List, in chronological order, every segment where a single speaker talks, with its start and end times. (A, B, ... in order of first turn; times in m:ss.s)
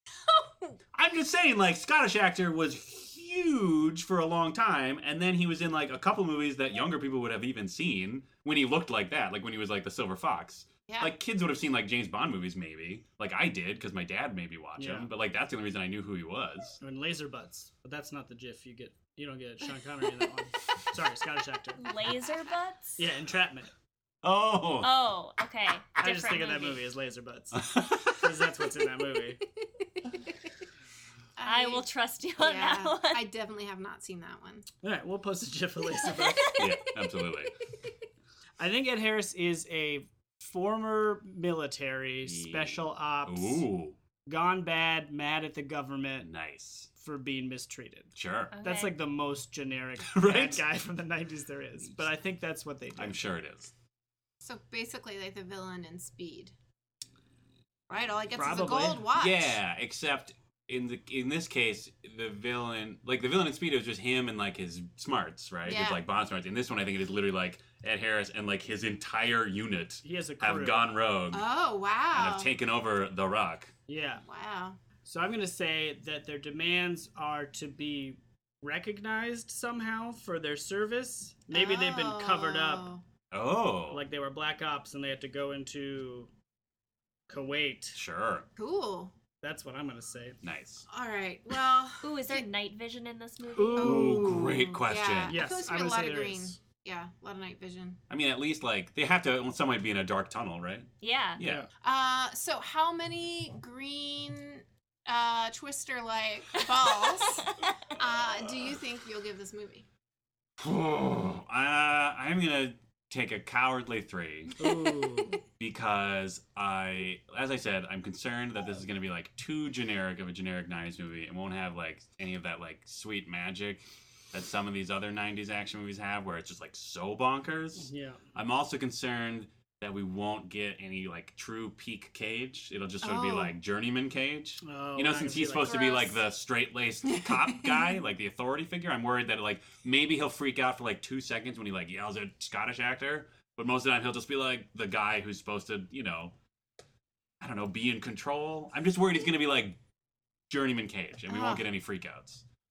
0:00.3-0:00.8 A
0:00.9-0:16.8 B
0:14.8-0:15.1 C
0:16.8-0:21.8 C
0:21.8-0:23.0 D
0:23.0-0:23.7 C
0:24.2-0:24.9 B
0:24.8-0:26.8 D
0:26.0-0:29.4 C
0:27.5-0:28.4 B
0:31.4-0:31.9 A
0:31.4-0:33.3 D
0:32.4-0:34.7 A
0:34.8-0:36.6 C
0:36.2-0:36.6 D
0:36.6-0:37.5 B
0:38.6-0:43.6 C
0:42.2-0:44.0 B
0:44.3-0:46.3 C
0:46.2-0:46.9 B
0:47.0-0:53.2 C
0:48.2-0:48.5 B
0:48.5-0:48.9 D
0:50.0-0:50.6 B
0:53.0-0:53.7 B
0:54.4-0:56.5 A
0:57.9-0:59.6 A
0:58.4-0:59.1 C
0:59.1-1:11.4 B
1:05.6-1:06.0 A
1:10.0-1:10.9 C
1:11.3-1:12.5 A
1:12.1-1:13.7 B
1:13.9-1:14.2 C
1:14.2-1:14.8 A
1:15.0-1:22.9 C
1:21.5-1:23.0 A
1:23.3-1:24.0 B
1:23.9-1:26.3 C
1:27.3-1:28.0 C
1:27.9-1:28.5 B
1:28.6-1:29.1 A
1:29.4-1:30.4 C
1:30.4-1:30.9 B
1:30.9-1:32.5 A
1:32.0-1:34.1 D
1:33.5-1:34.7 C
1:33.8-1:38.0 A
1:33.8-1:35.4 B
1:35.3-1:36.6 C
1:38.1-1:41.6 B
1:41.0-1:41.4 D
1:41.4-1:41.7 C
1:41.8-1:49.9 A
1:50.6-1:54.6 B
1:54.6-1:55.4 C
1:55.6-2:26.3 B
2:07.8-2:08.2 C
2:13.0-2:13.5 A
2:14.6-2:15.9 C
2:17.2-2:17.8 A
2:27.4-2:29.8 B
2:30.5-2:32.4 B
2:31.3-2:31.6 A